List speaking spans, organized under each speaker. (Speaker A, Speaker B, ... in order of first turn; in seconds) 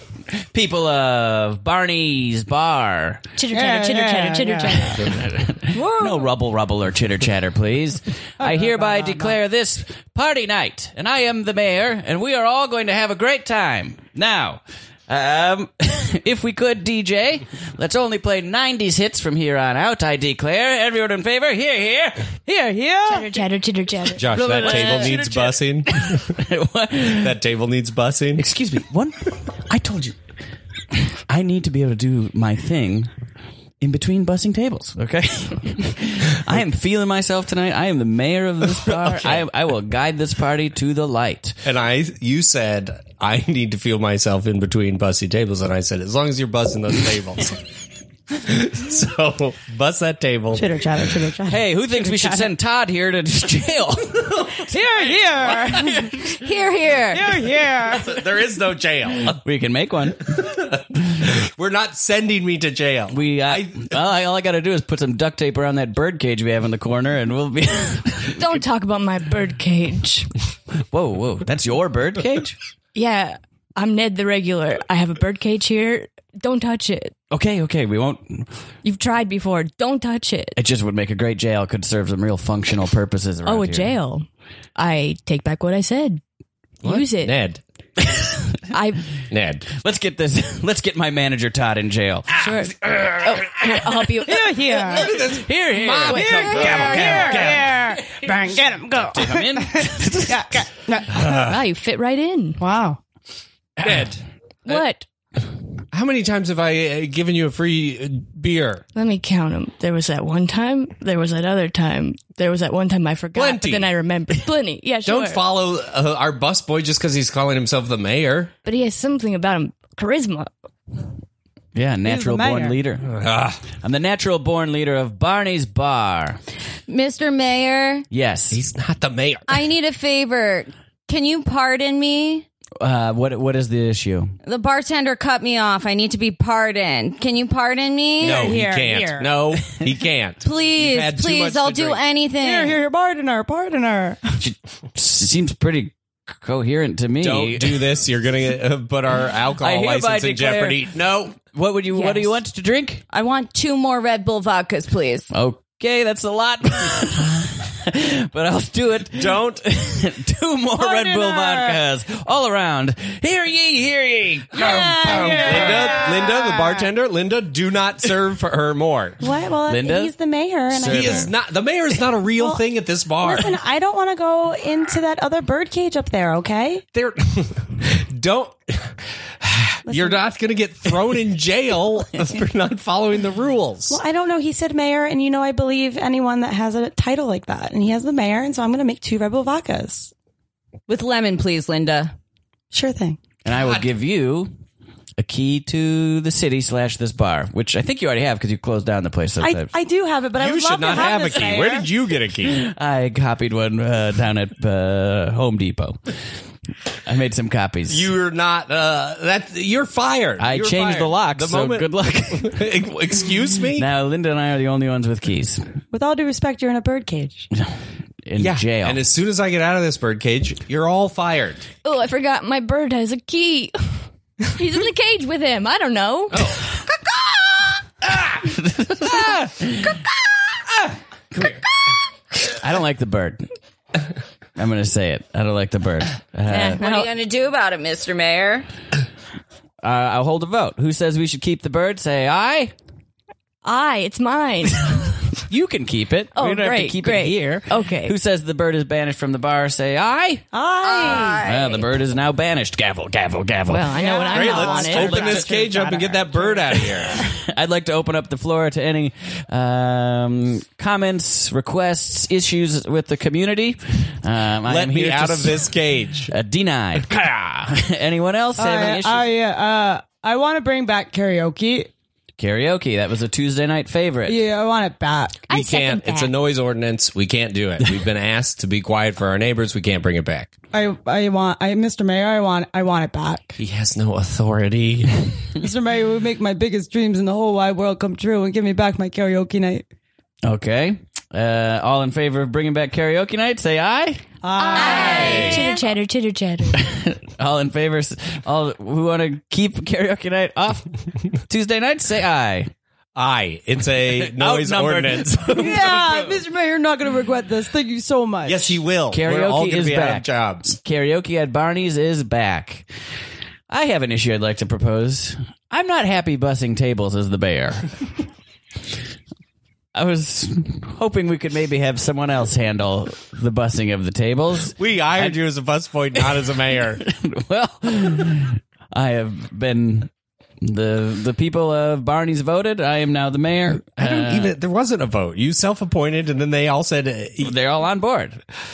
Speaker A: 0.5-3.2, 5.0-22.2, 24.3-27.3, 28.4-30.1, 31.3-33.1, 33.8-41.6, 51.5-56.3, 59.3-60.4, 63.1-68.5, 70.9-72.6, 77.3-78.5, 80.5-84.0, 88.0-88.6, 89.7-93.8, 95.0-100.6, 103.8-104.1, 121.7-123.2, 123.8-126.4, 128.1-128.6, 132.8-134.3, 144.4-147.9, 149.6-153.0, 155.3-165.8, 169.7-170.1, 170.7-171.3, 193.4-194.5, 195.2-199.7, 202.4-206.0, 207.0-208.1, 210.4-212.6, 213.7-215.7, 218.2-219.0, 228.3-230.0, 231.3-231.6, 232.5-233.5, 234.6-236.8, 239.8-242.7, 245.5-250.5, 251.4-254.0, 255.1-255.4, 257.4-265.7, 266.3-269.3, 272.4-274.4, 290.4-294.2, 296.7-300.9, 301.4-302.7, 304.1-306.0, 309.1-312.9, 313.7-317.9, 319.9-325.4, 327.0-330.1, 330.6-334.5, 337.4-338.4
Speaker B: 3.4-5.1, 23.0-25.1, 68.4-70.3, 72.9-77.1, 78.8-80.6, 83.4-86.2, 86.8-87.3, 88.7-89.0, 92.4-94.6, 96.1-97.0, 101.3-102.6, 104.7-105.0, 108.9-115.4, 118.6-120.5, 221.8-226.6, 236.5-237.1, 243.6-245.2, 246.3-248.2, 253.7-255.4, 275.5-276.3, 294.6-296.9
Speaker C: 3.5-5.1, 8.4-9.3, 22.4-23.3, 50.5-52.5, 54.7-56.3, 57.1-58.2, 94.3-95.2, 96.1-101.3, 102.6-103.0, 122.0-122.8, 138.2-139.3, 142.4-144.4, 160.8-161.8, 164.5-166.9, 169.2-171.3, 172.3-172.6, 173.2-176.8, 179.8-180.2, 183.9-190.1, 192.7-193.2, 199.4-201.9, 215.9-217.5, 250.5-251.4, 253.9-257.3, 268.6-271.9, 274.3-275.4, 280.7-283.6, 285.6-289.8, 294.4-295.7, 305.6-308.8
Speaker D: 24.1-26.4, 27.1-28.4, 38.8-39.4, 41.6-47.6, 48.4-51.0, 57.8-59.4, 60.3-63.9, 86.8-87.6, 89.3-89.7, 94.9-97.7, 101.1-101.6, 103.8-104.8, 105.9-108.8, 113.3-113.9, 115.0-118.5, 123.1-123.6, 128.5-129.6, 138.2-142.0, 147.2-151.4, 159.1-159.6, 164.5-169.2, 170.8-173.6, 176.9-184.0, 193.5-193.9, 200.4-202.6, 207.9-213.8, 218.4-221.7, 226.3-226.6, 254.3-257.2, 264.6-266.3, 275.5-280.5, 283.6-285.4, 295.1-295.6, 303.1-306.3, 308.4-310.7, 324.8-327.0, 333.9-337.5
Speaker E: 56.2-57.4, 126.9-128.1, 129.5-132.4, 134.4-138.6, 140.4-142.8, 153.1-155.3, 190.9-192.1, 236.8-238.7, 250.8-251.8, 294.7-295.8